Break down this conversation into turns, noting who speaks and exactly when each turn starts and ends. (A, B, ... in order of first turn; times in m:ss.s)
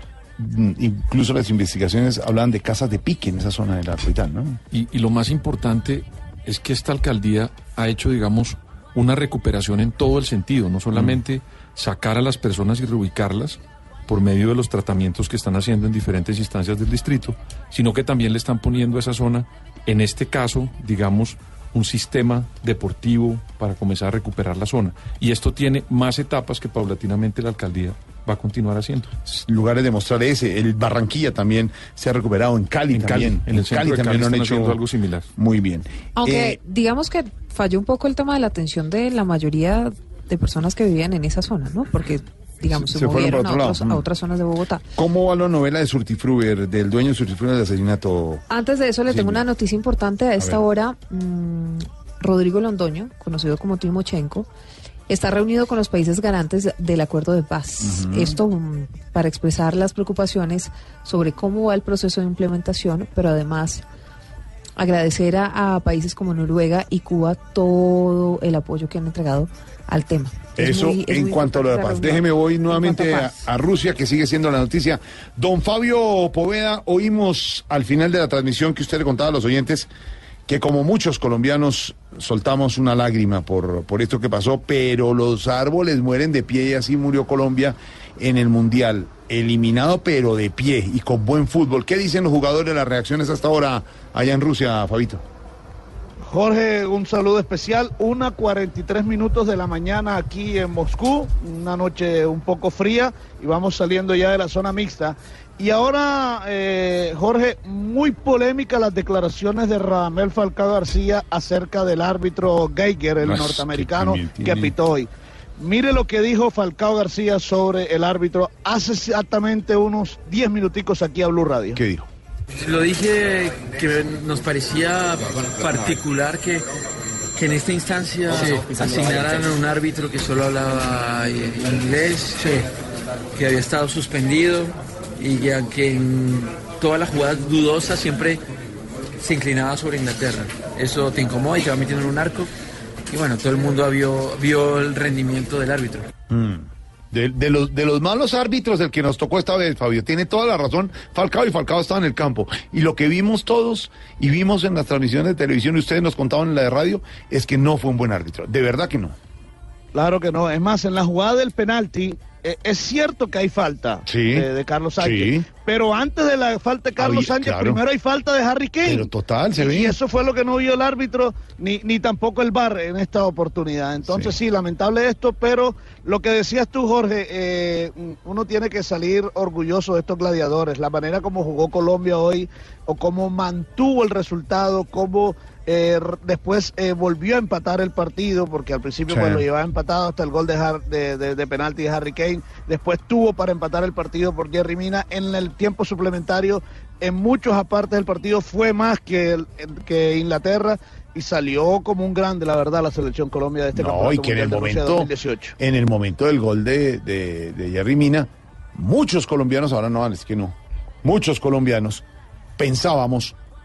0:00.4-0:04.6 A
0:04.7-0:29.1 B
0:10.9-0:11.2 A
0:29.3-0:34.8 A
0:32.9-0:35.3 B
0:35.4-0:36.6 A
0:36.2-0:44.8 C
0:42.7-0:44.0 A
0:45.0-0:48.4 A
0:48.5-0:54.5 C
0:49.1-0:49.4 A
0:55.1-1:03.8 C
0:57.8-0:58.4 A
1:04.8-1:13.4 C
1:10.6-1:19.9 A
1:20.5-1:35.2 A
1:36.3-2:01.8 D
1:53.2-1:54.7 A
2:01.8-2:02.1 A
2:02.6-2:06.6 E
2:07.4-2:12.6 E
2:13.4-2:18.4 E
2:19.2-2:22.5 E
2:23.1-2:26.0 E
2:26.3-2:39.2 A
2:40.0-3:25.5 D
2:44.1-2:44.4 A
2:45.0-2:45.5 A
2:47.0-2:47.8 A
2:48.8-2:50.0 A
2:54.1-2:54.3 A
3:09.1-3:09.4 A
3:23.8-3:32.0 A
3:32.6-3:33.3 A